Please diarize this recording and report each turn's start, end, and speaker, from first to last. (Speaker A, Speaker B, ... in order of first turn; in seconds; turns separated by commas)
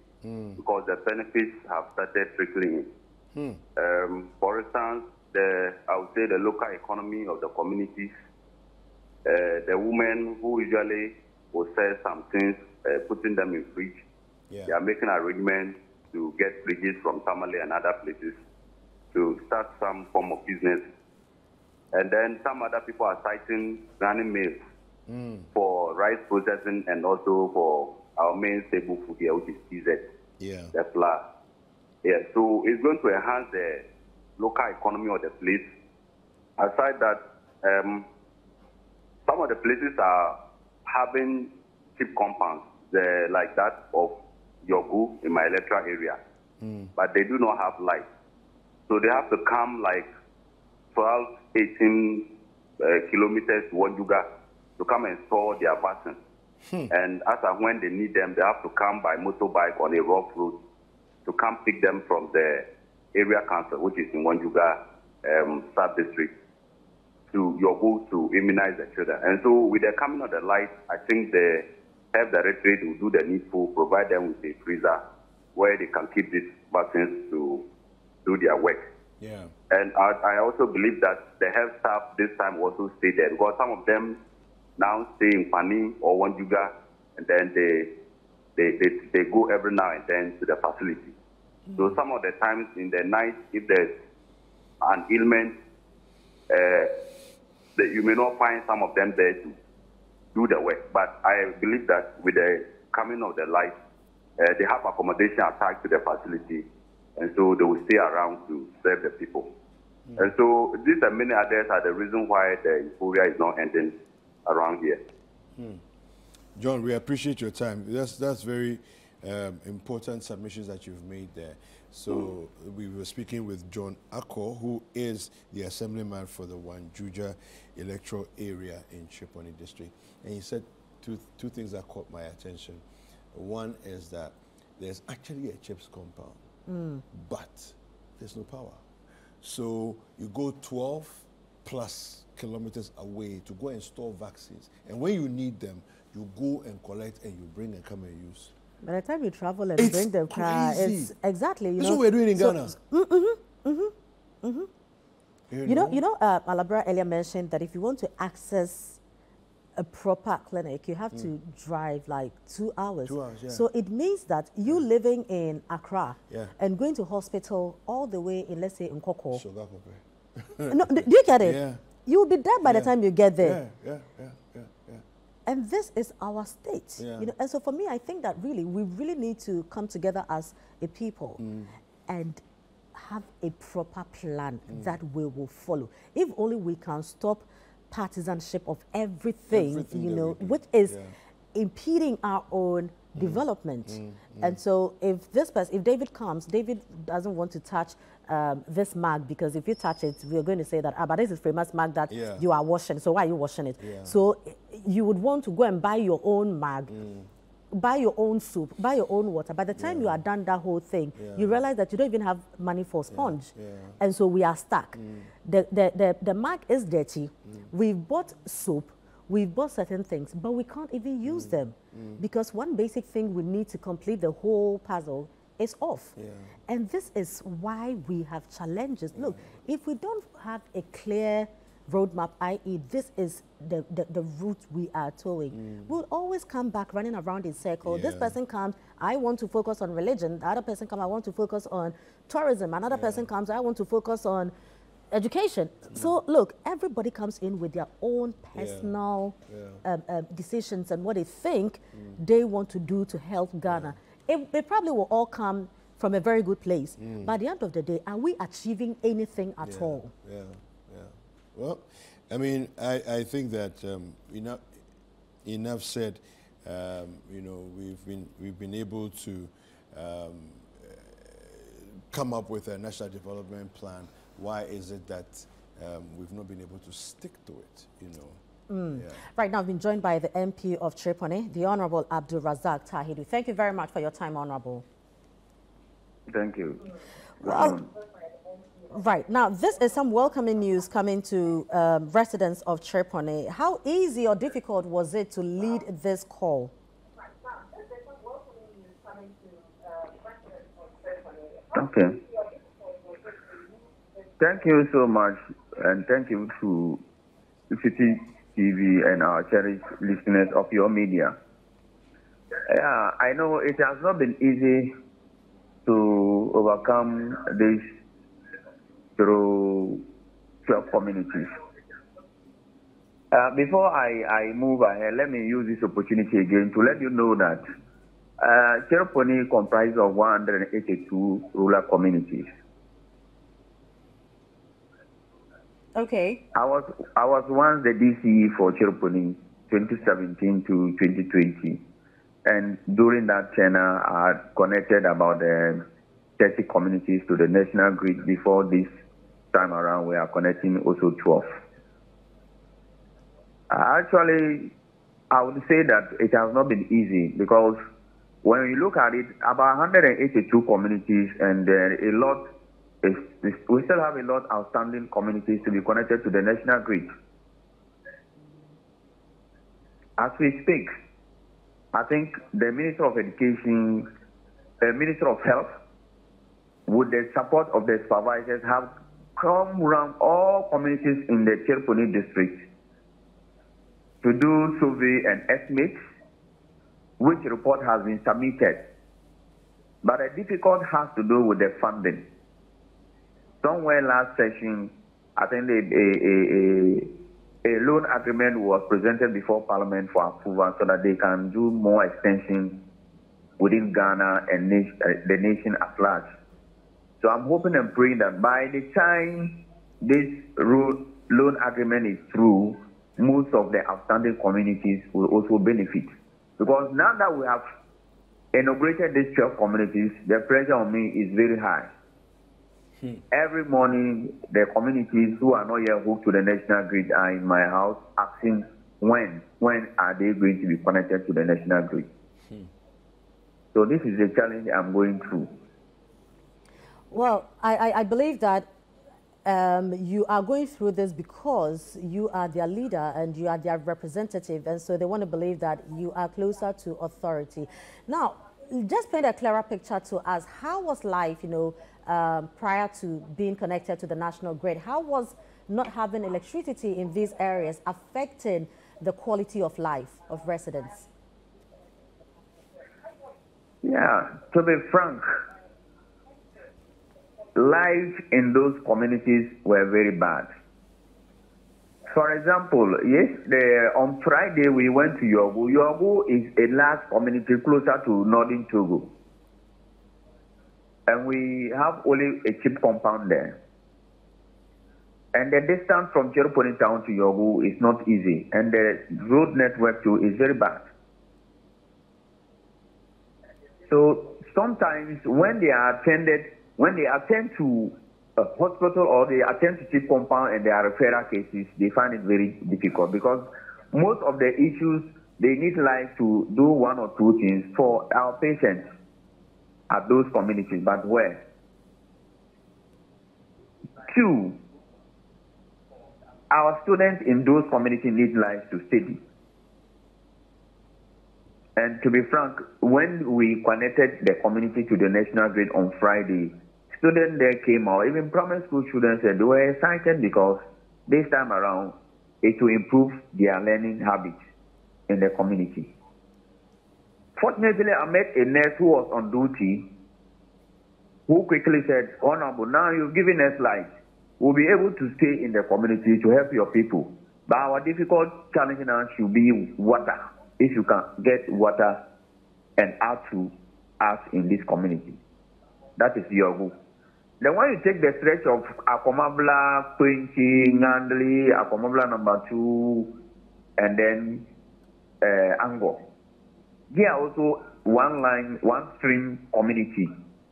Speaker A: 0.2-0.6, Speaker B: 0.6-2.9, Speaker A: 3.3-3.6, Speaker B: 3.8-8.1, Speaker B: 9.2-14.0, Speaker A: 14.5-14.7, Speaker B: 14.7-18.4, Speaker B: 19.1-20.9, Speaker B: 21.9-24.6, Speaker A: 25.1-25.5, Speaker B: 25.5-30.0, Speaker A: 30.4-30.7, Speaker B: 30.7-31.2, Speaker B: 32.0-33.8, Speaker B: 34.4-35.7, Speaker B: 36.6-38.0, Speaker B: 39.2-46.2, Speaker A: 46.6-46.9, Speaker B: 47.0-48.1, Speaker B: 48.9-50.1, Speaker B: 50.9-52.2, Speaker B: 52.8-54.2, Speaker B: 54.8-56.2, Speaker A: 56.6-56.9, Speaker B: 56.9-60.6, Speaker B: 61.2-66.3, Speaker B: 67.3-75.0, Speaker B: 75.5-77.6, Speaker B: 78.2-78.8, Speaker A: 79.2-79.5, Speaker B: 79.7-84.2, Speaker B: 84.8-87.9, Speaker B: 88.5-91.1, Speaker A: 91.7-92.0, Speaker B: 91.8-93.9, Speaker B: 94.8-95.5, Speaker B: 96.5-96.9, Speaker B: 97.8-99.5, Speaker B: 100.3-103.8, Speaker B: 104.4-109.5, Speaker A: 110.1-110.3, Speaker B: 110.2-113.9, Speaker B: 114.5-115.0, Speaker A: 115.5-115.8, Speaker A: 116.5-136.4, Speaker C: 136.7-137.0, Speaker A: 137.1-138.8, Speaker A: 139.4-148.5, Speaker C: 148.8-154.7, Speaker A: 149.8-151.1, Speaker A: 151.8-152.8, Speaker A: 155.5-156.0, Speaker C: 155.6-159.0, Speaker C: 159.8-169.4, Speaker A: 163.0-163.6, Speaker A: 166.3-166.5, Speaker A: 169.3-171.8, Speaker C: 170.7-173.6, Speaker A: 172.6-175.0, Speaker C: 175.4-181.4, Speaker A: 177.0-177.3, Speaker A: 181.4-181.7, Speaker C: 182.1-182.4, Speaker C: 182.9-190.9, Speaker A: 184.7-185.0, Speaker A: 189.5-191.1, Speaker C: 191.5-206.9, Speaker A: 193.1-194.6, Speaker A: 202.1-202.5, Speaker A: 203.8-204.2, Speaker A: 206.9-207.3, Speaker C: 207.7-226.2, Speaker A: 209.7-210.2, Speaker A: 211.2-211.6, Speaker A: 213.1-214.0, Speaker A: 214.9-215.3, Speaker A: 217.4-217.7, Speaker A: 221.2-222.2, Speaker A: 226.2-226.5, Speaker C: 226.7-244.5, Speaker A: 229.1-229.5, Speaker A: 235.5-235.9, Speaker A: 237.8-238.3, Speaker A: 242.9-243.2, Speaker C: 245.1-260.1, Speaker A: 248.6-249.8, Speaker A: 251.9-252.2, Speaker A: 253.6-253.9, Speaker A: 257.0-257.4, Speaker A: 259.6-264.7, Speaker A: 265.4-278.4, Speaker C: 278.7-284.8, Speaker A: 278.9-279.2, Speaker D: 286.3-286.8, Speaker C: 287.4-287.8, Speaker D: 287.4-287.9, Speaker C: 288.9-296.7, Speaker D: 301.7-302.1, Speaker D: 304.4-307.0, Speaker D: 307.7-311.3, Speaker D: 312.7-314.9, Speaker D: 315.9-317.8, Speaker D: 319.2-320.0, Speaker D: 320.6-321.5, Speaker D: 323.3-327.6, Speaker D: 328.4-332.5, Speaker C: 335.9-336.4, Speaker D: 336.5-341.8, Speaker D: 342.4-345.8, Speaker D: 346.4-348.9, Speaker D: 349.5-351.4, Speaker D: 353.7-354.7, Speaker D: 355.3-357.8, Speaker D: 358.4-362.4, Speaker D: 363.0-367.1, Speaker D: 370.2-370.9, Speaker D: 371.9-374.1, Speaker D: 374.8-375.7, Speaker D: 376.9-382.6, Speaker D: 384.2-386.0, Speaker D: 387.2-388.8, Speaker D: 390.0-392.2, Speaker D: 393.6-397.1, Speaker D: 397.6-402.8, Speaker D: 403.6-406.3, Speaker D: 407.2-417.6, Speaker D: 418.5-421.9, Speaker D: 423.3-432.1, Speaker D: 433.7-435.5, Speaker C: 437.1-438.7, Speaker C: 439.4-461.1, Speaker D: 463.8-465.2, Speaker D: 467.6-470.5, Speaker D: 472.1-479.1, Speaker D: 481.1-483.6, Speaker D: 485.3-490.8, Speaker D: 493.9-508.8, Speaker D: 509.9-511.4, Speaker D: 514.1-514.5, Speaker D: 516.5-519.2, Speaker D: 521.8-534.4, Speaker D: 535.1-535.9, Speaker D: 537.4-539.8, Speaker D: 541.3-543.9, Speaker D: 544.4-552.0, Speaker D: 552.8-555.2, Speaker D: 556.0-556.7, Speaker D: 557.4-563.1, Speaker D: 563.8-564.4, Speaker D: 565.2-566.0, Speaker D: 566.9-570.1